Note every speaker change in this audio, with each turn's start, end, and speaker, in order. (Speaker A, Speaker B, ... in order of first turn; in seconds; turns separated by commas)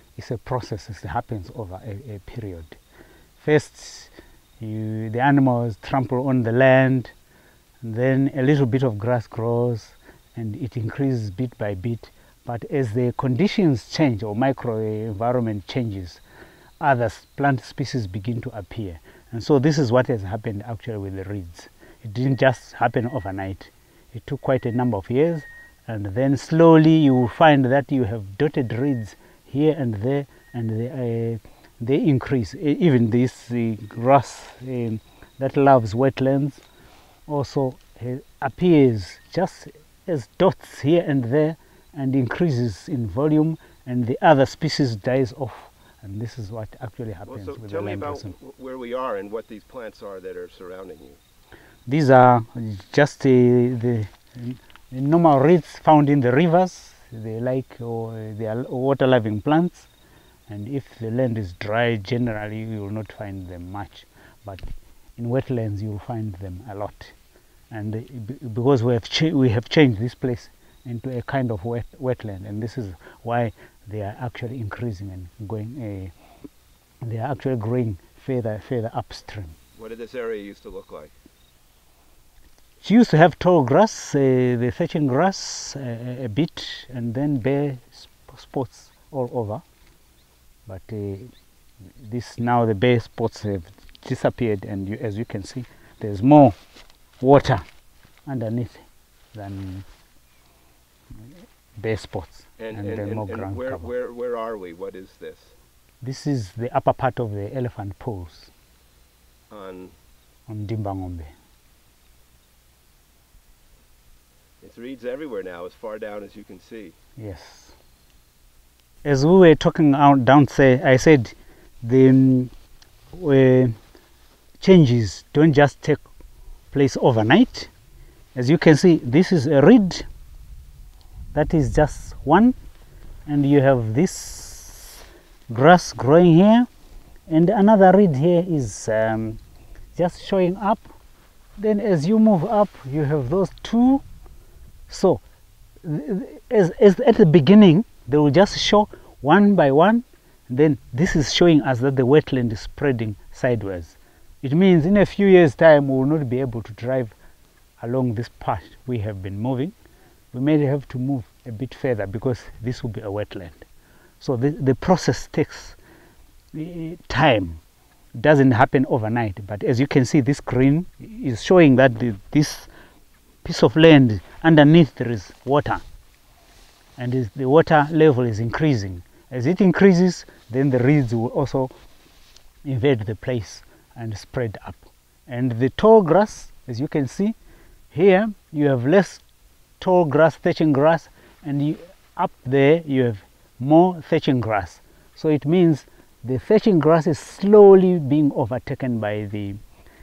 Speaker A: 0.1-2.8, Speaker A: 3.4-7.1, Speaker A: 7.8-16.2, Speaker A: 16.8-36.6, Speaker A: 37.3-48.3, Speaker B: 47.2-51.2, Speaker A: 51.9-59.9, Speaker A: 60.5-67.1, Speaker A: 67.7-76.1, Speaker A: 77.0-79.5, Speaker B: 79.7-81.1, Speaker A: 82.8-89.6, Speaker A: 90.7-91.3, Speaker A: 92.0-96.5, Speaker A: 97.2-97.6, Speaker A: 98.3-99.8, Speaker A: 101.8-103.9, Speaker B: 102.6-105.5, Speaker A: 106.0-108.5, Speaker B: 109.5-109.9, Speaker A: 110.5-111.3, Speaker B: 114.6-117.0, Speaker A: 117.2-117.7, Speaker A: 119.0-122.5, Speaker A: 123.1-123.8, Speaker A: 124.6-126.0, Speaker A: 126.7-127.7, Speaker A: 128.3-130.1, Speaker A: 131.3-132.5, Speaker A: 133.2-136.7, Speaker A: 137.3-139.4, Speaker A: 139.9-140.9, Speaker A: 141.6-144.0, Speaker A: 144.9-145.2, Speaker A: 145.8-157.1, Speaker A: 157.8-159.7, Speaker A: 160.3-163.7, Speaker A: 164.2-165.8, Speaker A: 166.5-167.6, Speaker A: 168.1-172.7, Speaker A: 173.4-175.8, Speaker A: 177.0-181.7, Speaker A: 182.6-187.3, Speaker A: 187.9-189.2, Speaker A: 189.8-199.6